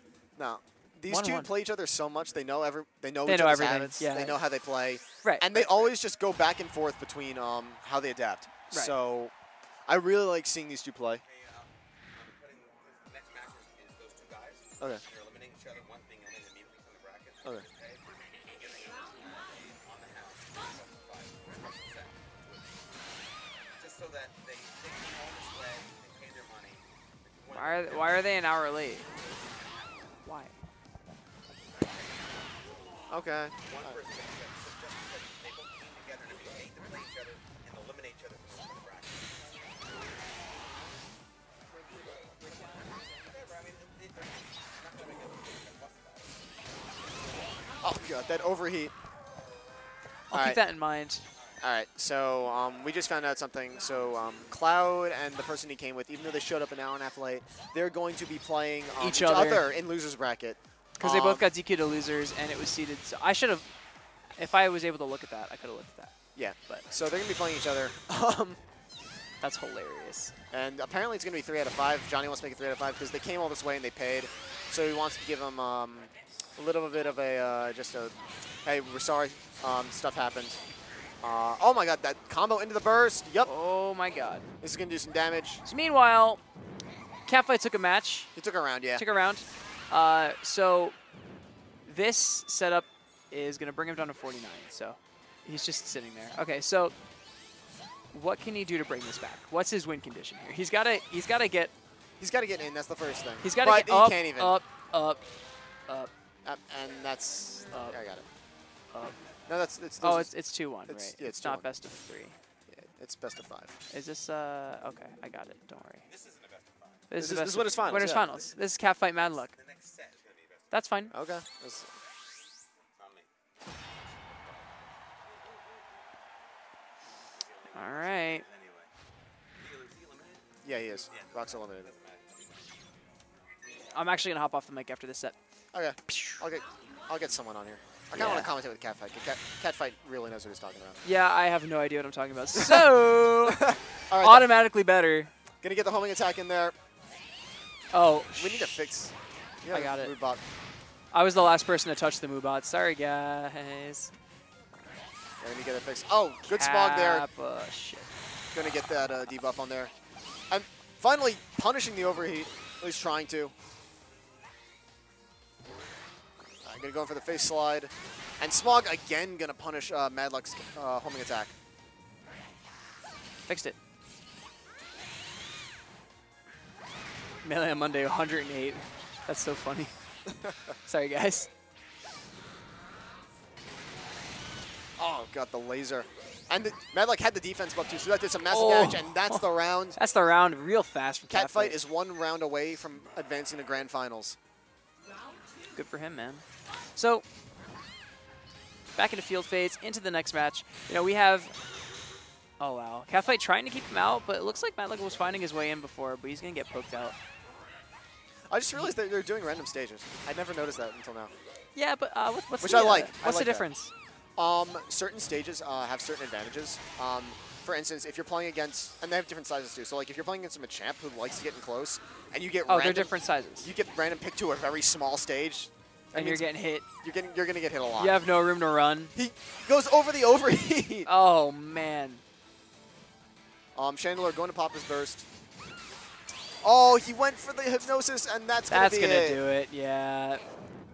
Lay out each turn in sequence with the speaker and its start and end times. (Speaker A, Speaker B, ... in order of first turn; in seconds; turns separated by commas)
Speaker A: 0.3-9.3, Speaker B: 1.1-1.5, Speaker B: 3.2-4.4, Speaker B: 5.2-5.9, Speaker A: 9.9-11.2, Speaker C: 11.2-22.8, Speaker C: 23.8-28.3, Speaker B: 27.5-29.1, Speaker B: 30.2-30.5, Speaker A: 33.1-34.0, Speaker C: 33.6-39.4, Speaker C: 43.2-46.4, Speaker A: 47.8-48.9, Speaker B: 50.3-51.2, Speaker A: 50.3-50.6, Speaker A: 51.6-61.5, Speaker B: 59.0-59.6, Speaker B: 61.0-63.7, Speaker B: 64.4-66.1, Speaker A: 66.3-68.6, Speaker B: 69.4-70.3, Speaker A: 70.5-80.6, Speaker A: 81.2-83.5, Speaker B: 83.4-84.5, Speaker A: 84.6-85.6, Speaker B: 85.6-86.4, Speaker B: 87.2-88.3, Speaker A: 88.3-89.0, Speaker B: 88.9-91.0, Speaker B: 91.8-96.9, Speaker B: 98.1-101.7, Speaker A: 102.2-104.6, Speaker B: 103.4-105.2, Speaker A: 106.4-108.2, Speaker B: 107.7-108.0, Speaker A: 109.5-110.3, Speaker B: 110.0-112.4, Speaker A: 110.9-111.7, Speaker A: 112.7-113.7, Speaker B: 113.9-116.0, Speaker C: 116.0-117.0, Speaker B: 117.1-119.5, Speaker A: 117.2-118.2, Speaker C: 119.5-120.7, Speaker B: 120.7-121.1, Speaker A: 121.1-121.9, Speaker C: 123.0-123.3, Speaker C: 124.0-124.8, Speaker C: 127.4-128.9, Speaker B: 127.7-128.4, Speaker C: 129.6-130.4, Speaker A: 130.6-131.9, Speaker C: 131.1-132.6, Speaker B: 133.9-135.3, Speaker A: 135.7-141.0, Speaker B: 136.1-136.4, Speaker B: 138.1-138.5, Speaker B: 141.0-145.3, Speaker A: 142.5-142.9, Speaker A: 143.5-144.5, Speaker A: 145.6-146.7, Speaker B: 147.9-148.7, Speaker A: 148.3-150.4, Speaker B: 149.7-150.1, Speaker B: 151.1-154.1, Speaker A: 155.4-157.3, Speaker B: 156.4-158.1, Speaker A: 158.5-159.9, Speaker A: 160.5-163.5, Speaker A: 166.6-171.5, Speaker B: 173.5-173.8, Speaker B: 177.4-179.9, Speaker A: 180.3-180.7, Speaker B: 180.8-181.5, Speaker A: 185.0-190.0, Speaker B: 188.5-189.4, Speaker B: 189.9-191.8, Speaker A: 191.3-194.4, Speaker B: 195.7-197.2, Speaker B: 198.9-201.5, Speaker B: 202.6-207.2, Speaker A: 208.5-211.3, Speaker B: 211.7-213.9, Speaker A: 212.6-213.7, Speaker A: 214.4-226.5, Speaker B: 222.7-223.7, Speaker B: 226.1-226.8, Speaker A: 227.0-228.2, Speaker B: 228.0-229.1, Speaker A: 229.2-231.1, Speaker B: 231.1-232.2, Speaker A: 233.8-235.2, Speaker A: 236.6-239.4, Speaker B: 238.7-240.4